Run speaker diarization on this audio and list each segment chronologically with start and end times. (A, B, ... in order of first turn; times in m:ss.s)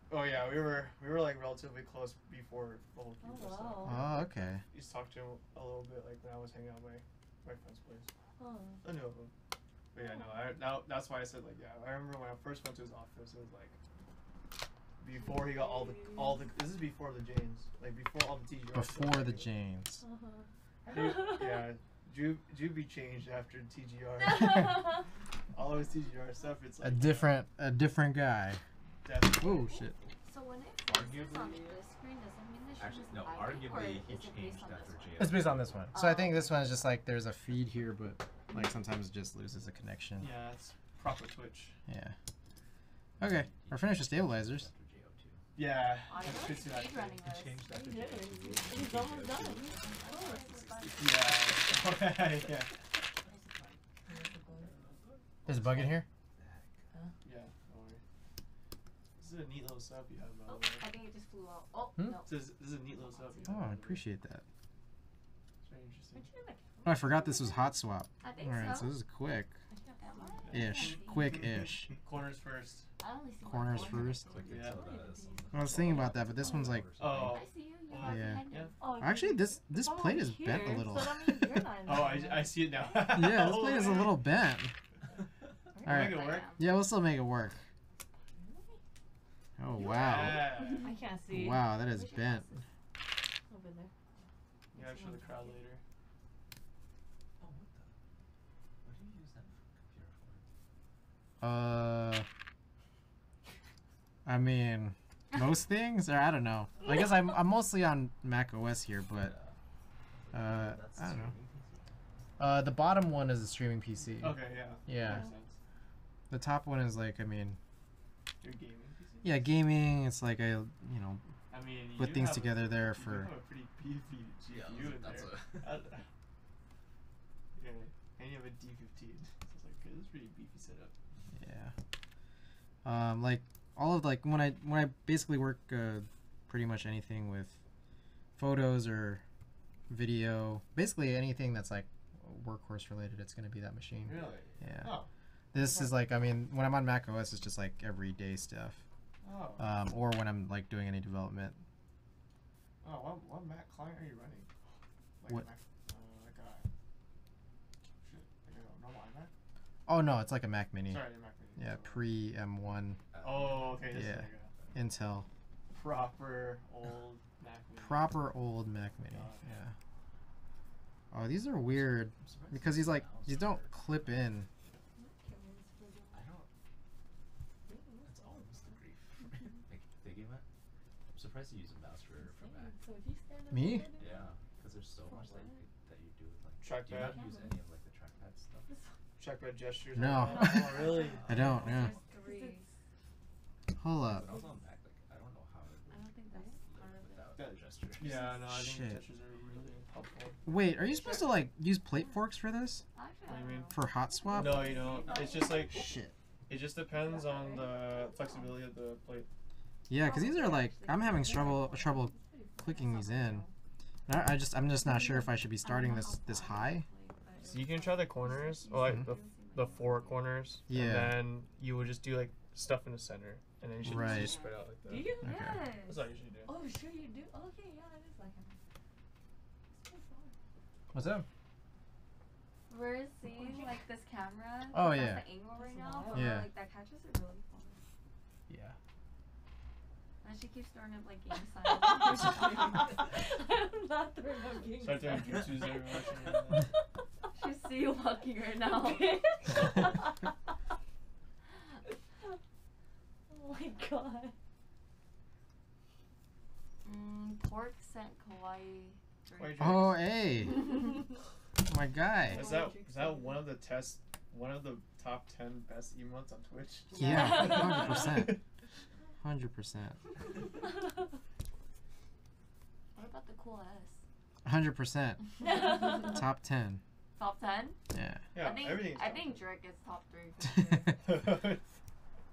0:00.1-0:08.1 A
0:03.2-0:04.0 B
0:03.8-0:04.6 C
0:08.4-0:08.8 B
0:08.8-0:09.3 A
0:09.9-0:13.8 A
0:15.0-0:19.5 A
0:15.1-0:16.5 B
0:18.7-0:20.0 C
0:20.0-0:21.7 B
0:20.8-0:25.0 A
0:25.5-0:27.4 A
0:26.8-0:28.6 C
0:29.0-0:29.8 A
0:29.4-0:30.0 C
0:30.2-0:35.4 D
0:30.8-0:31.8 E
0:32.8-0:35.9 E
0:35.2-0:40.4 C
0:35.9-0:36.6 D
0:40.2-0:41.8 A
0:41.9-0:42.2 C
0:43.2-0:45.4 E
0:43.2-0:44.7 C
0:45.6-0:47.2 A
0:46.1-0:47.6 D
0:47.2-0:51.7 E
0:47.7-0:50.5 B
0:49.4-0:51.3 D
0:51.0-0:52.8 A
0:54.1-0:54.7 B
0:54.6-0:55.2 A
0:55.4-0:56.8 E
0:55.4-0:56.0 C
0:57.2-0:58.0 A
0:59.2-1:00.9 A
1:00.5-1:02.3 D
1:02.0-1:02.2 C
1:02.2-1:04.0 A
1:03.0-1:03.7 D
1:03.4-1:04.4 C
1:05.6-1:06.3 A
1:06.1-1:07.7 B
1:06.8-1:09.6 C
1:08.2-1:08.9 D
1:09.7-1:10.7 B
1:10.0-1:11.4 D
1:10.5-1:12.9 A
1:10.5-1:11.9 C
1:13.0-1:14.5 D
1:13.4-1:14.4 C
1:13.8-1:17.5 E
1:14.4-1:14.8 A
1:14.4-1:16.4 B
1:15.5-1:16.9 C
1:17.0-1:18.7 A
1:17.2-1:18.9 D
1:18.0-1:21.4 C
1:18.8-1:22.6 B
1:21.8-1:24.2 A
1:23.1-1:24.7 C
1:25.7-1:26.0 B
1:25.8-1:26.5 A
1:25.8-1:27.6 C
1:25.9-1:26.6 D
1:28.4-1:28.8 B
1:29.6-1:30.6 C
1:29.8-1:30.9 A
1:30.4-1:32.6 B
1:31.3-1:32.6 C
1:33.5-1:33.9 B
1:34.7-1:35.8 A
1:34.8-1:35.6 B
1:37.4-1:37.9 E
1:38.8-1:40.4 E
1:41.4-1:42.3 C
1:44.2-1:49.3 C
1:49.1-1:49.6 E
1:50.1-1:51.9 E
1:50.3-1:51.3 C
1:52.4-1:55.2 C
1:54.2-1:55.6 A
1:56.3-1:57.6 C
1:58.4-1:59.5 A
1:59.2-2:01.2 C
2:01.5-2:06.1 A
2:01.9-2:03.3 C
2:04.5-2:05.8 E
2:07.6-2:10.9 A
2:11.3-2:11.7 C
2:12.8-2:17.6 C
2:18.4-2:19.2 C
2:19.9-2:25.0 C
2:24.0-2:26.0 A
2:24.2-2:24.8 E
2:25.5-2:28.8 C
2:29.2-2:29.7 A
2:29.6-2:31.6 C
2:32.8-2:34.5 A
2:35.2-2:36.6 A
2:38.0-2:39.3 A
2:39.9-2:43.0 C
2:40.9-2:42.0 A
2:43.1-2:44.0 E
2:43.2-2:44.5 A
2:43.7-2:45.3 C
2:45.7-2:48.2 A
2:47.8-2:49.7 C
2:49.1-2:49.5 A
2:51.1-2:54.5 C
2:51.7-2:54.1 E
2:55.0-2:56.3 B
2:56.1-2:56.5 E
2:57.7-2:58.8 B
2:58.0-3:00.4 E
3:01.1-3:02.7 E
3:02.2-3:04.3 B
3:03.5-3:03.9 C
3:04.0-3:08.7 E
3:05.0-3:05.6 B
3:06.6-3:07.2 A
3:07.0-3:07.6 B
3:08.7-3:08.9 B
3:09.2-3:11.7 A
3:09.9-3:11.9 C
3:10.8-3:11.6 E
3:11.0-3:12.6 B
3:11.3-3:12.7 D
3:13.8-3:14.3 C
3:14.0-3:16.1 E
3:15.9-3:17.4 D
3:16.6-3:18.1 E
3:17.4-3:20.4 A
3:18.4-3:19.1 C
3:20.4-3:22.8 C
3:22.9-3:25.6 D
3:23.3-3:23.8 A
3:23.7-3:24.8 C
3:24.3-3:25.8 A
3:24.4-3:25.7 B
3:25.7-3:26.1 C
3:26.5-3:29.3 A
3:26.9-3:28.5 B
3:29.9-3:33.4 C
3:30.0-3:33.5 B
3:34.1-3:36.8 C
3:34.8-3:40.3 D
3:37.4-3:45.2 A
3:38.8-3:39.1 C
3:40.7-3:41.2 C
3:43.8-3:44.4 C
3:43.9-3:44.5 D
3:44.8-3:45.7 B
3:45.2-3:45.6 C
3:45.2-3:46.1 D
3:45.8-3:46.5 A
3:46.4-3:48.6 B
3:49.7-3:50.3 B
3:50.9-3:51.2 C
3:52.7-3:57.8 D
3:53.3-3:53.7 B
3:54.7-3:55.2 C
3:55.6-3:56.4 B
3:56.1-3:56.5 C
3:58.5-3:58.8 C
4:00.2-4:03.0 D
4:01.7-4:05.4 B
4:04.8-4:06.7 A
4:07.3-4:09.1 D
4:08.7-4:10.2 B
4:13.3-4:14.3 B
4:16.8-4:19.9 D
4:19.3-4:20.1 A
4:19.6-4:20.6 C
4:21.6-4:22.5 C
4:22.2-4:23.4 B
4:22.3-4:28.4 A
4:27.0-4:28.4 C
4:27.1-4:28.1 B
4:29.2-4:30.0 C
4:32.9-4:34.0 D
4:34.4-4:35.3 C
4:35.4-4:36.0 D
4:35.8-4:36.8 C
4:37.2-4:37.8 D
4:37.9-4:38.3 C
4:38.3-4:39.5 A
4:38.4-4:41.0 D
4:40.5-4:40.9 C
4:41.0-4:41.6 A